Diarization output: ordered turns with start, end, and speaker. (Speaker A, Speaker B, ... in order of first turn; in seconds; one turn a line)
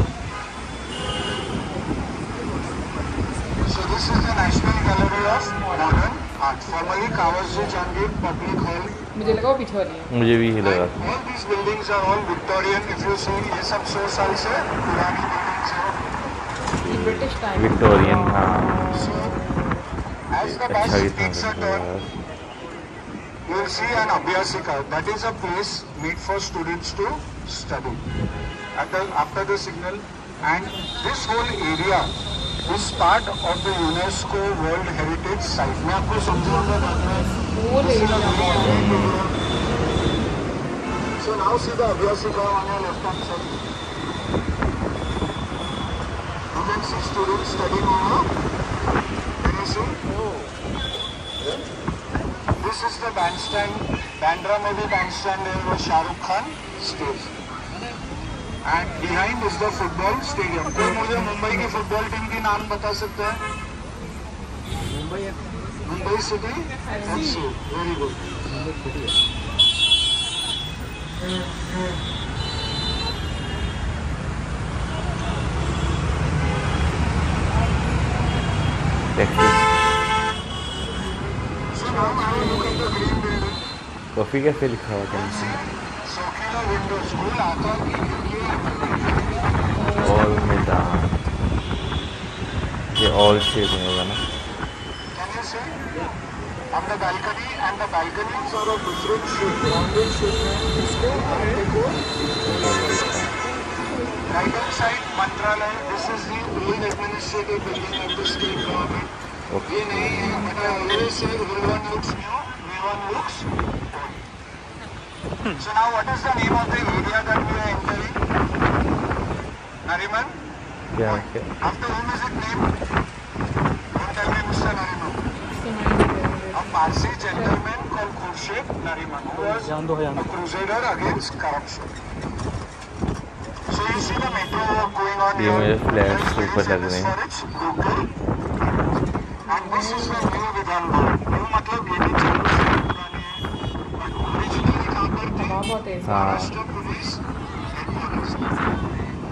Speaker A: 3.6-9.0
Speaker B: 5.5-6.0
Speaker B: 9.1-10.1
Speaker C: 10.1-11.0
Speaker A: 10.6-16.2
Speaker C: 16.8-19.0
Speaker B: 16.9-19.5
Speaker A: 18.9-19.4
Speaker A: 20.3-21.9
Speaker C: 20.4-22.1
Speaker A: 23.4-28.0
Speaker A: 28.8-32.1
Speaker A: 32.6-39.3
Speaker B: 37.4-39.0
Speaker C: 38.6-39.2
Speaker A: 41.2-43.7
Speaker A: 46.5-48.3
Speaker A: 49.4-50.0
Speaker A: 52.6-57.3
Speaker A: 58.6-63.4
Speaker A: 65.8-68.2
Speaker B: 66.9-67.4
Speaker C: 79.2-79.7
Speaker A: 81.7-83.6
Speaker B: 82.2-82.7
Speaker C: 84.2-85.6
Speaker A: 85.1-89.5
Speaker B: 85.5-85.7
Speaker B: 89.7-90.5
Speaker C: 90.0-91.1
Speaker C: 92.9-94.2
Speaker A: 95.1-95.8
Speaker A: 96.7-102.1
Speaker C: 102.4-103.4
Speaker A: 104.3-109.1
Speaker C: 109.5-110.5
Speaker A: 109.7-114.3
Speaker A: 115.5-118.2
Speaker A: 119.8-120.4
Speaker C: 120.9-121.5
Speaker A: 121.0-122.8
Speaker A: 123.9-125.3
Speaker B: 125.5-127.6
Speaker A: 126.5-132.0
Speaker A: 133.7-138.1
Speaker B: 134.5-134.8
Speaker C: 135.4-137.1
Speaker B: 139.5-140.3
Speaker A: 139.5-149.0
Speaker B: 145.3-146.5
Speaker C: 146.1-146.5